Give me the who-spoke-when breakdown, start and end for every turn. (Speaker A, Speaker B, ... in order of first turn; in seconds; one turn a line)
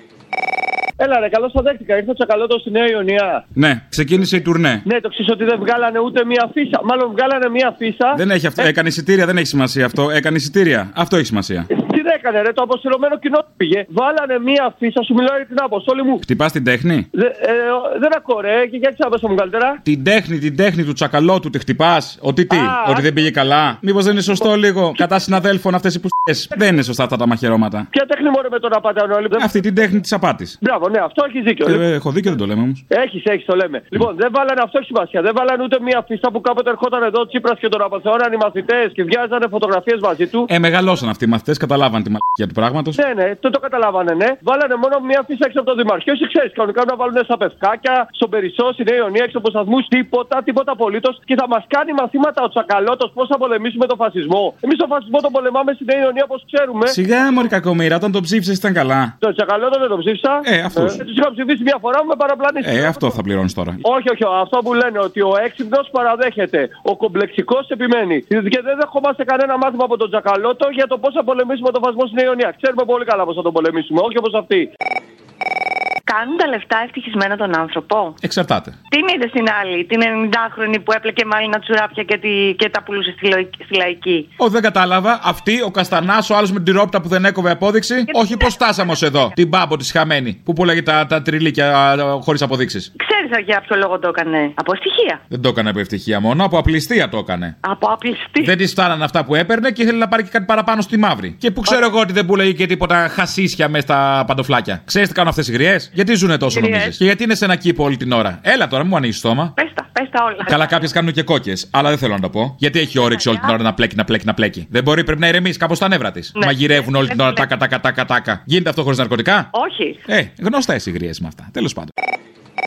Speaker A: 1.0-3.4
Speaker B: 3.5-4.8
Speaker A: 4.8-8.7
Speaker B: 8.1-11.7
Speaker A: 11.7-16.2
Speaker B: 16.2-17.1
Speaker A: 17.1-19.8
Speaker B: 19.8-27.9
Speaker A: 22.5-23.0
Speaker A: 27.9-29.5
Speaker B: 29.3-30.6
Speaker A: 30.6-31.8
Speaker B: 31.6-32.8
Speaker A: 32.9-40.5
Speaker B: 40.5-43.0
Speaker A: 42.9-57.0
Speaker B: 56.9-59.1
Speaker A: 59.2-63.1
Speaker B: 60.4-61.0
Speaker B: 62.6-63.8
Speaker A: 63.8-74.7
Speaker C: 76.1-78.2
Speaker B: 78.2-78.8
Speaker C: 78.9-84.3
Speaker B: 84.4-92.9
Speaker C: 88.1-89.3
Speaker C: 93.0-95.2
Speaker B: 95.3-97.5
Speaker C: 97.6-98.5
Speaker B: 98.4-109.5
Speaker C: 106.5-106.9
Speaker C: 109.6-110.8
Speaker B: 110.4-119.5
Speaker C: 113.0-113.5
Speaker C: 116.3-117.5
Speaker C: 119.5-120.0
Speaker B: 120.1-121.9